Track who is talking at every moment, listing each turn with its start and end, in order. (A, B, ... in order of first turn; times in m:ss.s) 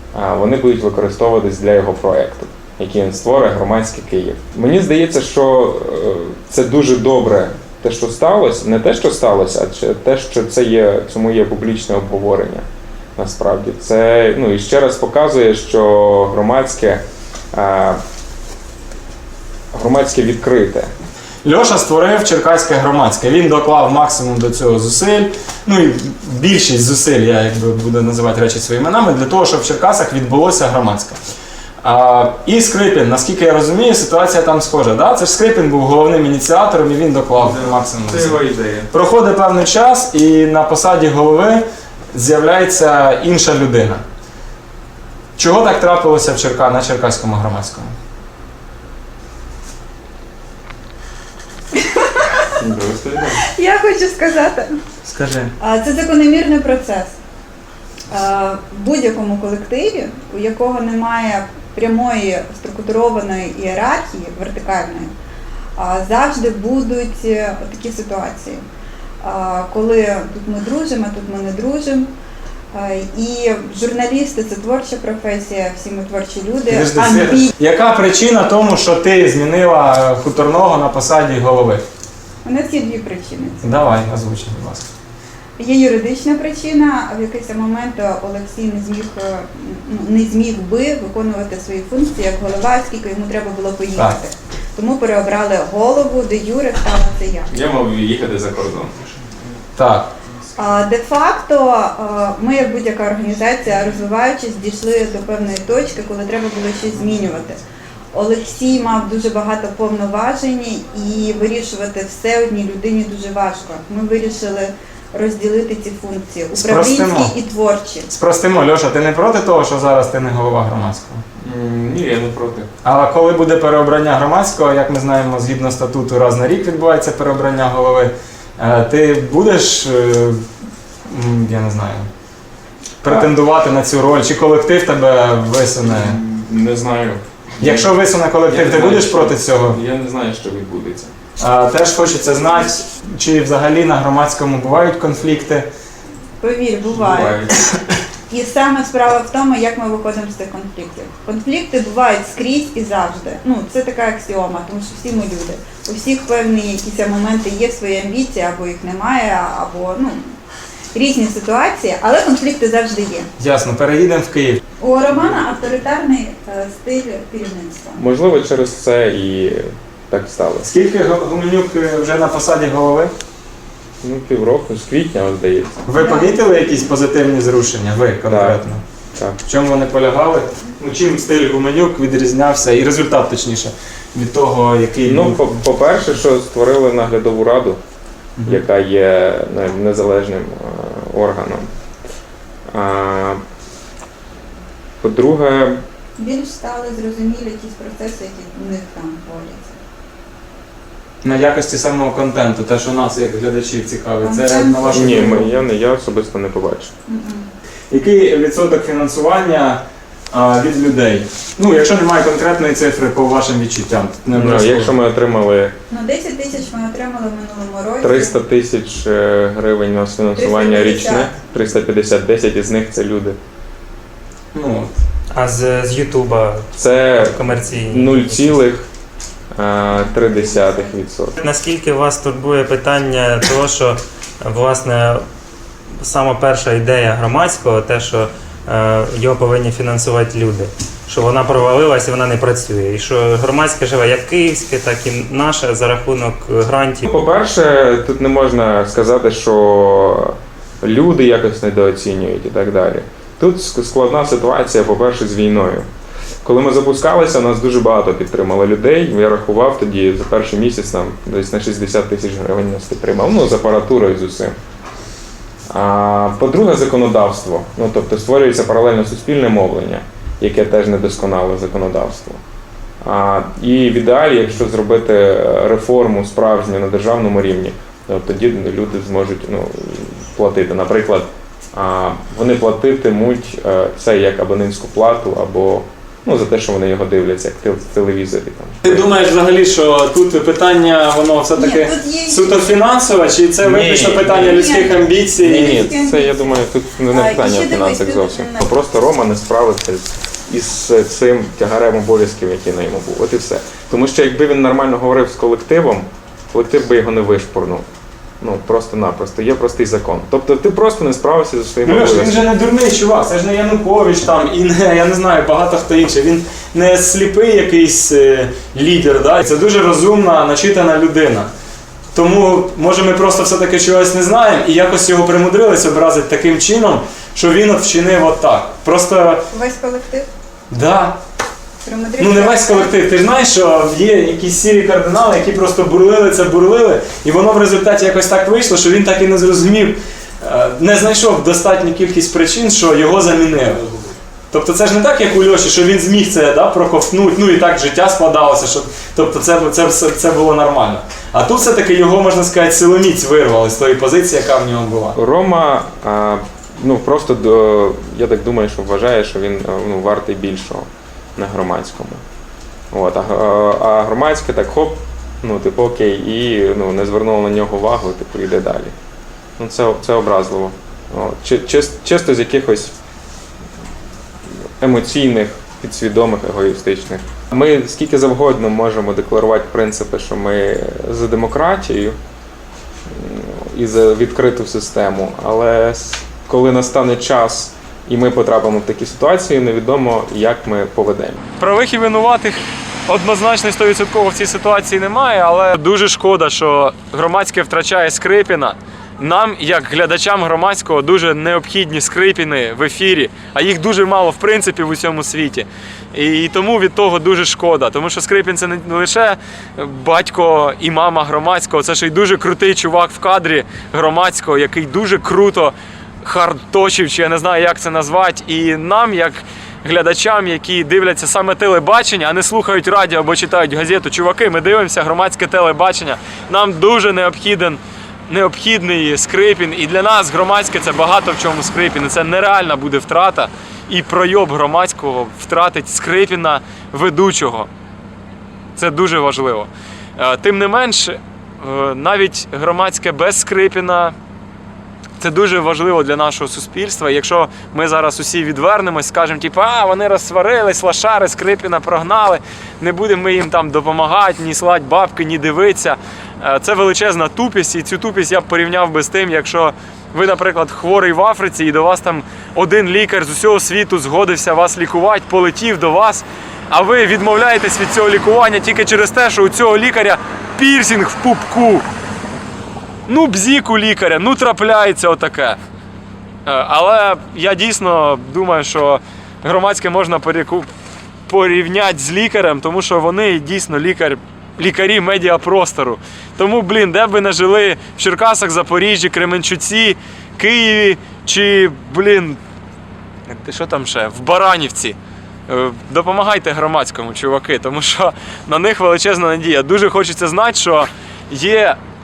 0:00.1-0:18.0 A
0:19.7-0:20.9 A
0:21.4-0:31.2 B
0:31.8-0:38.4 B
0:37.4-0:38.9 A
0:38.9-0:44.0 B
0:45.4-0:47.9 B
0:52.6-0:53.4 A
0:53.5-0:54.8 C
0:55.0-0:55.5 B
0:55.6-0:57.2 C
0:58.1-1:05.1 C
1:05.8-1:08.6 C
1:09.2-1:12.1 C
1:12.7-1:17.5 C
1:16.7-1:21.8 B
1:22.4-1:23.8 C
1:23.6-1:24.9 B
1:25.6-1:37.5 C
1:37.5-1:39.0 A
1:39.8-1:40.1 B
1:40.6-1:47.6 C
1:48.1-1:58.1 C
1:56.5-1:57.3 B
1:58.1-2:01.2 B
2:01.4-2:02.7 A
2:02.8-2:10.4 B
2:11.1-2:12.1 B
2:13.0-2:16.2 B
2:13.1-2:13.3 A
2:15.8-2:21.1 A
2:17.6-2:19.8 B
2:21.4-2:25.7 B
2:26.4-2:27.5 C
2:26.9-2:27.5 A
2:28.3-2:40.4 C
2:40.9-2:43.3 C
2:43.4-2:44.6 B
2:44.8-2:48.0 C
2:48.0-2:50.7 A
2:50.6-2:53.1 B
2:54.0-2:55.8 A
2:55.9-2:58.8 B
2:56.0-2:56.4 C
2:58.2-2:59.4 A
2:59.4-3:05.4 B
3:05.0-3:07.8 A
3:08.4-3:11.7 A
3:12.7-3:13.4 A
3:15.0-3:15.8 A
3:16.2-3:19.8 C
3:21.2-3:25.5 B
3:24.2-3:25.2 C
3:24.9-3:26.9 A
3:27.1-3:27.5 C
3:27.9-3:34.9 B
3:34.3-3:35.8 A
3:35.9-3:38.4 C
3:38.0-3:43.4 A
3:40.3-3:41.3 C
3:44.5-3:44.9 B
3:45.3-3:48.6 D
3:46.8-3:48.9 A
3:49.6-3:51.3 A
3:50.2-3:50.9 C
3:51.4-3:55.2 D
3:56.0-4:07.1 D
4:07.0-4:15.9 A
4:16.4-4:24.6 A
4:25.7-4:32.4 A
4:33.0-4:49.1 A
4:48.8-4:55.8 B
4:51.6-4:52.7 C
4:53.6-4:54.6 A
4:54.2-4:56.6 C
4:55.3-5:07.9 A
4:57.1-4:58.7 C
5:08.4-5:12.5 A
5:11.8-5:21.5 B
5:22.1-5:29.4 B
5:29.5-5:30.3 C
5:30.7-5:31.2 B
5:31.8-5:33.0 C
5:32.2-5:55.1 B
5:55.1-6:02.2 A
6:02.9-6:08.9 A
6:09.6-6:12.9 A
6:14.8-6:22.2 A
6:23.1-6:31.4 A
6:31.6-7:17.7 E
7:18.8-7:24.1 E
7:25.2-7:51.8 E
7:53.1-7:55.6 E
7:56.4-8:00.7 E
8:01.3-8:12.4 E
8:13.3-8:15.0 E
8:15.5-8:21.8 E